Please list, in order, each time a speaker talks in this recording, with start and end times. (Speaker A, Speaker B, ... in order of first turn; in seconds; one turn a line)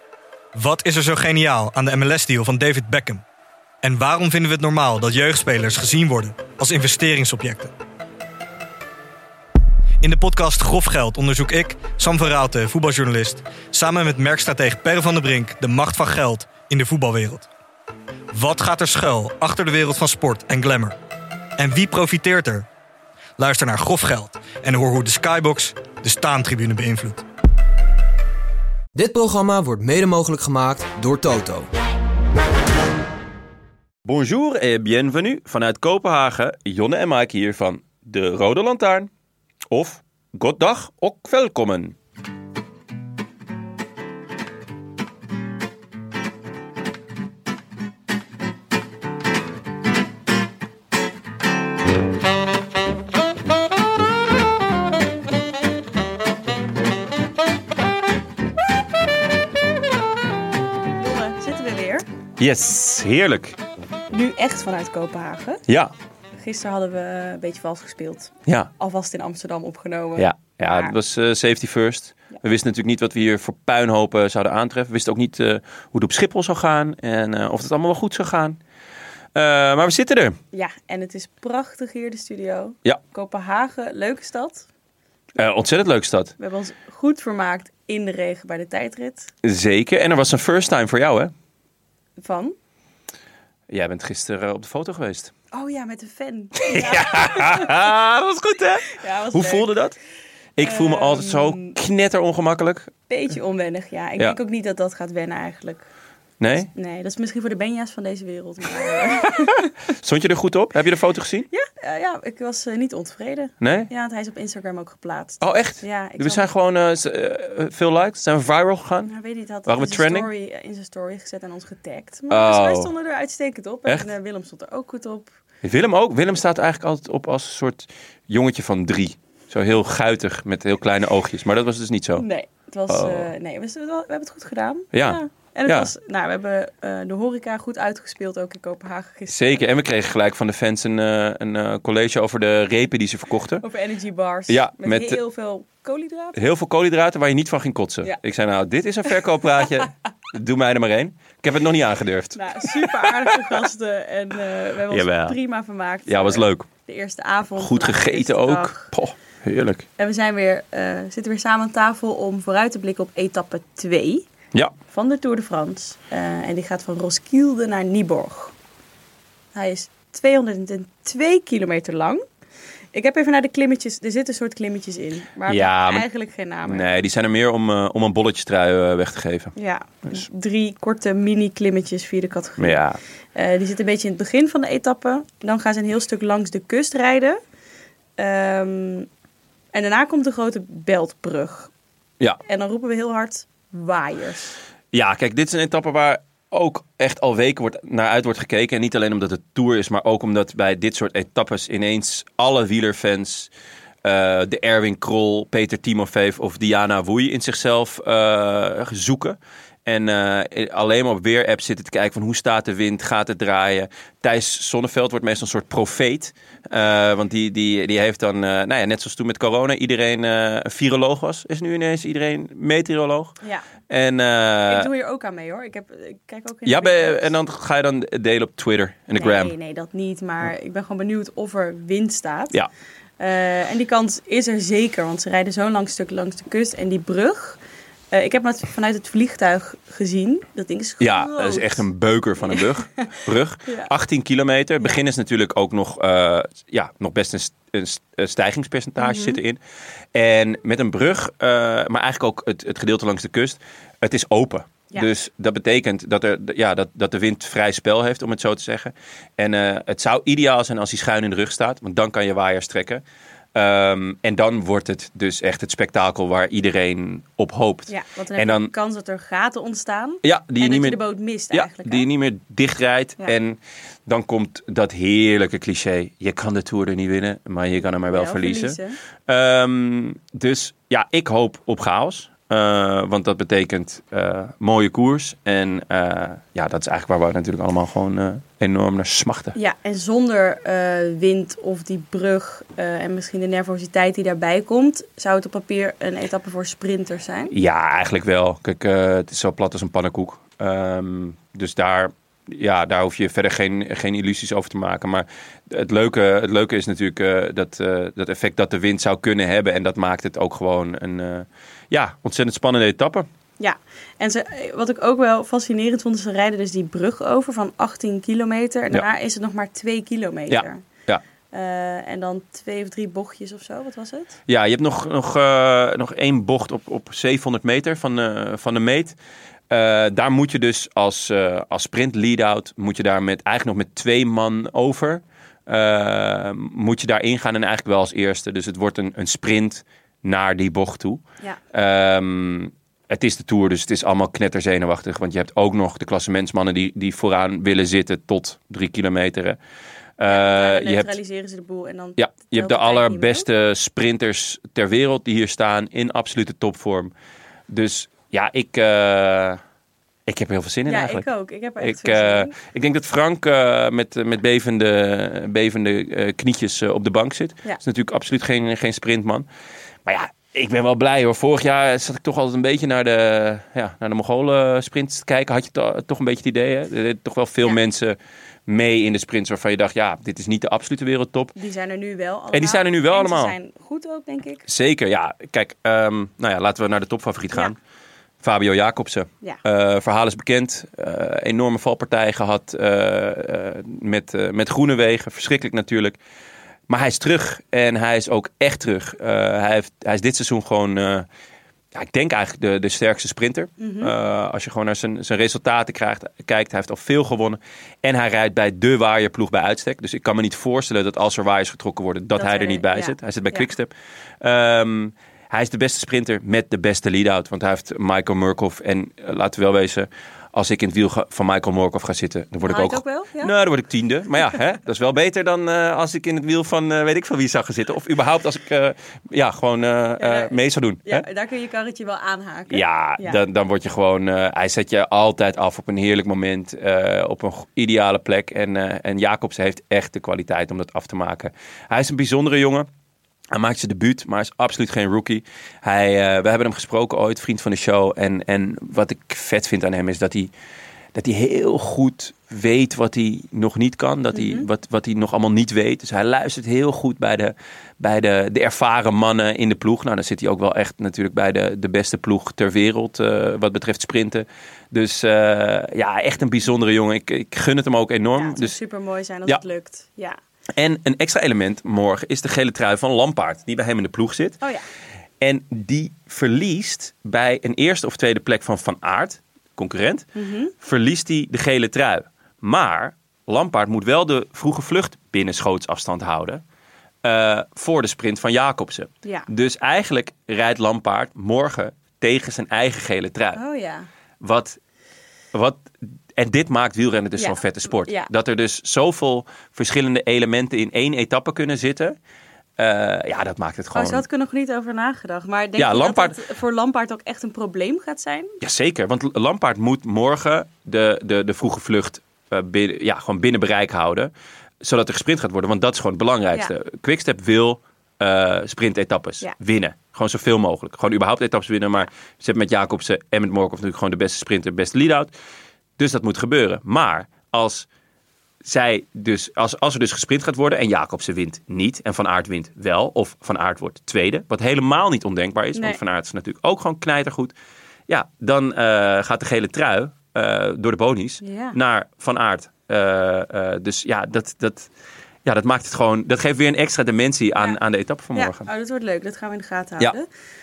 Speaker A: 0.5-3.2
Speaker A: 3.8-7.7
Speaker A: 10.0-17.5
Speaker A: 18.3-20.9
Speaker A: 21.6-22.7
Speaker A: 23.4-27.2
Speaker B: 28.9-31.7
Speaker C: 34.0-39.1
Speaker C: 39.7-42.0
Speaker D: 61.0-62.0
Speaker C: 62.4-63.6
Speaker D: 64.1-65.6
Speaker C: 65.7-65.9
Speaker D: 66.4-70.9
Speaker C: 70.2-78.6
Speaker C: 79.3-80.4
Speaker D: 80.5-84.7
Speaker C: 85.4-86.3
Speaker D: 86.4-89.3
Speaker C: 89.4-91.3
Speaker D: 92.2-92.5
Speaker C: 93.7-95.3
Speaker D: 95.5-97.9
Speaker C: 96.6-100.0
Speaker D: 98.9-99.7
Speaker C: 100.6-102.9
Speaker D: 100.6-101.7
Speaker D: 103.1-105.8
Speaker C: 106.4-106.7
Speaker D: 106.6-109.7
Speaker C: 109.9-111.5
Speaker D: 111.5-116.5
Speaker C: 113.6-113.9
Speaker C: 115.4-119.1
Speaker D: 119.0-125.3
Speaker C: 119.7-120.3
Speaker C: 122.3-122.9
Speaker C: 125.6-132.2
Speaker D: 132.2-139.6
Speaker C: 132.9-133.3
Speaker C: 134.9-135.9
Speaker C: 139.3-143.6
Speaker D: 143.6-146.4
Speaker C: 144.5-145.2
Speaker C: 146.3-153.3
Speaker D: 152.3-158.9
Speaker C: 154.8-155.4
Speaker C: 156.1-156.7
Speaker C: 157.6-159.8
Speaker D: 160.0-164.2
Speaker D: 164.9-168.5
Speaker D: 169.5-172.2
Speaker D: 172.9-176.9
Speaker C: 175.4-176.1
Speaker C: 176.7-179.5
Speaker D: 179.6-182.8
Speaker C: 182.6-183.0
Speaker D: 183.3-187.4
Speaker D: 188.2-189.1
Speaker D: 189.7-191.7
Speaker D: 192.5-194.6
Speaker C: 194.9-203.5
Speaker C: 204.0-223.3
Speaker D: 223.4-223.7
Speaker C: 223.9-224.9
Speaker D: 224.7-227.3
Speaker C: 226.6-229.5
Speaker D: 229.1-232.6
Speaker D: 233.2-241.8
Speaker C: 241.0-249.6
Speaker D: 242.4-243.1
Speaker D: 249.0-249.4
Speaker C: 250.1-263.0
Speaker C: 263.5-268.7
Speaker D: 267.9-272.1
Speaker C: 270.2-289.5
Speaker D: 278.1-279.0
Speaker D: 289.5-297.5
Speaker C: 297.5-313.2
Speaker D: 313.6-320.8
Speaker C: 320.5-321.2
Speaker D: 321.5-324.3
Speaker C: 324.5-329.1
Speaker C: 329.7-341.2
Speaker C: 341.7-349.6
Speaker C: 350.2-351.2
Speaker D: 350.2-353.5
Speaker C: 352.2-357.1
Speaker C: 357.7-359.6
Speaker C: 360.3-361.2
Speaker D: 360.9-362.5
Speaker C: 361.8-369.5
Speaker C: 370.1-381.5
Speaker D: 381.5-384.6
Speaker C: 382.5-383.5
Speaker C: 384.6-387.8
Speaker C: 388.4-396.2
Speaker C: 396.9-401.3
Speaker C: 401.9-431.2
Speaker D: 403.8-404.1
Speaker D: 412.4-413.7
Speaker D: 422.6-423.5
Speaker D: 430.2-433.4
Speaker C: 432.7-442.9
Speaker C: 443.5-450.5
Speaker C: 451.1-468.8
Speaker D: 454.3-454.7
Speaker D: 468.3-470.4
Speaker C: 470.8-474.6
Speaker C: 475.4-480.2
Speaker D: 480.3-480.7
Speaker C: 480.8-486.6
Speaker C: 487.2-493.6
Speaker D: 493.5-494.1
Speaker C: 494.4-494.8
Speaker C: 495.5-502.1
Speaker D: 497.4-498.3
Speaker C: 502.8-504.2
Speaker D: 503.9-508.5
Speaker C: 505.8-506.4
Speaker C: 508.6-514.3
Speaker C: 514.8-525.3
Speaker C: 526.0-527.9
Speaker C: 528.6-537.5
Speaker D: 535.7-536.0
Speaker C: 538.1-544.9
Speaker D: 541.4-541.8
Speaker C: 545.4-548.7
Speaker D: 548.3-550.3